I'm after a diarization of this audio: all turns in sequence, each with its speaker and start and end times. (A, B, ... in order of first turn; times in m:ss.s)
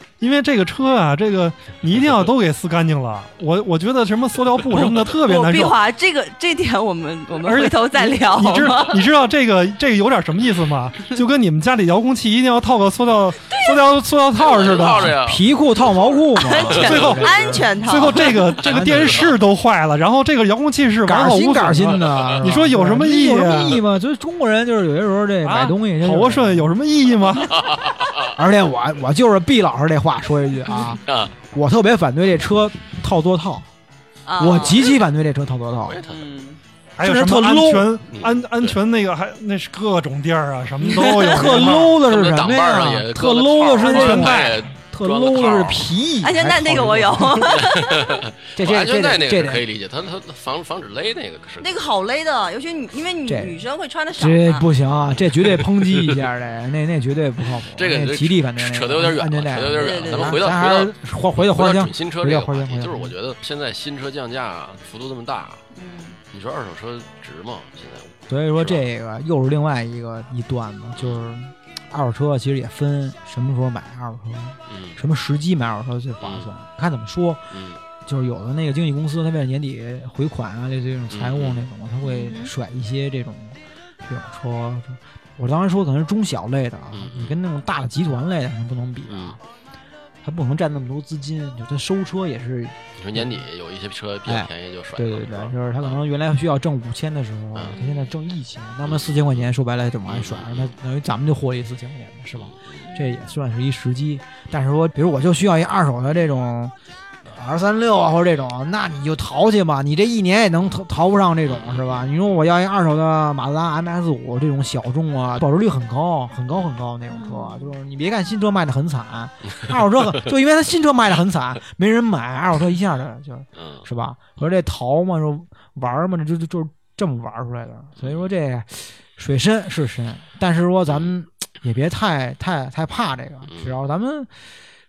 0:00.2-0:05.8 A
0:04.7-0:05.1 B
0:05.2-0:09.0 C
0:07.4-0:15.2 A
0:13.5-0:13.8 C
0:14.4-0:17.2 B
0:15.0-0:19.4 D
0:16.4-0:18.6 C
0:16.8-0:23.8 A
0:18.8-0:19.3 B
0:21.0-0:26.7 D
0:25.4-0:27.6 A
0:27.5-0:28.4 B
0:28.3-0:33.7 D
0:31.0-0:31.3 B
0:34.3-0:35.0 C
0:34.4-0:36.0 D
0:35.9-0:36.2 B
0:36.0-0:36.6 C
0:37.0-0:42.0 A
0:37.0-0:37.9 D
0:38.1-0:38.8 B
0:40.8-0:47.7 D
0:40.9-0:41.4 C
0:42.0-0:45.9 B
0:43.9-0:44.7 A
0:46.2-0:48.1 C
0:47.5-0:51.7 B
0:48.5-0:49.6 D
0:51.6-0:54.7 C
0:53.3-0:53.6 D
0:54.2-1:03.1 D
0:55.0-0:56.2 B
0:57.8-1:05.6 B
0:59.8-1:00.4 C
1:05.7-1:06.2 C
1:06.3-1:08.8 B
1:08.3-1:29.4 D
1:11.0-1:11.2 B
1:14.7-1:15.0 B
1:16.2-1:16.5 B
1:17.5-1:17.8 B
1:21.1-1:21.7 B
1:22.0-1:22.5 C
1:26.9-1:27.4 B
1:29.1-1:29.4 B
1:30.2-1:33.5 D
1:33.0-1:36.0 B
1:34.3-1:46.7 D
1:37.7-1:38.1 C
1:38.9-1:39.5 B
1:40.1-1:40.8 B
1:42.4-1:42.8 B
1:42.8-1:43.3 C
1:47.2-2:14.4 D
1:51.5-1:52.1 B
1:57.1-1:57.8 C
2:03.6-2:03.9 B
2:08.0-2:08.3 B
2:10.9-2:11.1 B
2:13.5-2:13.8 B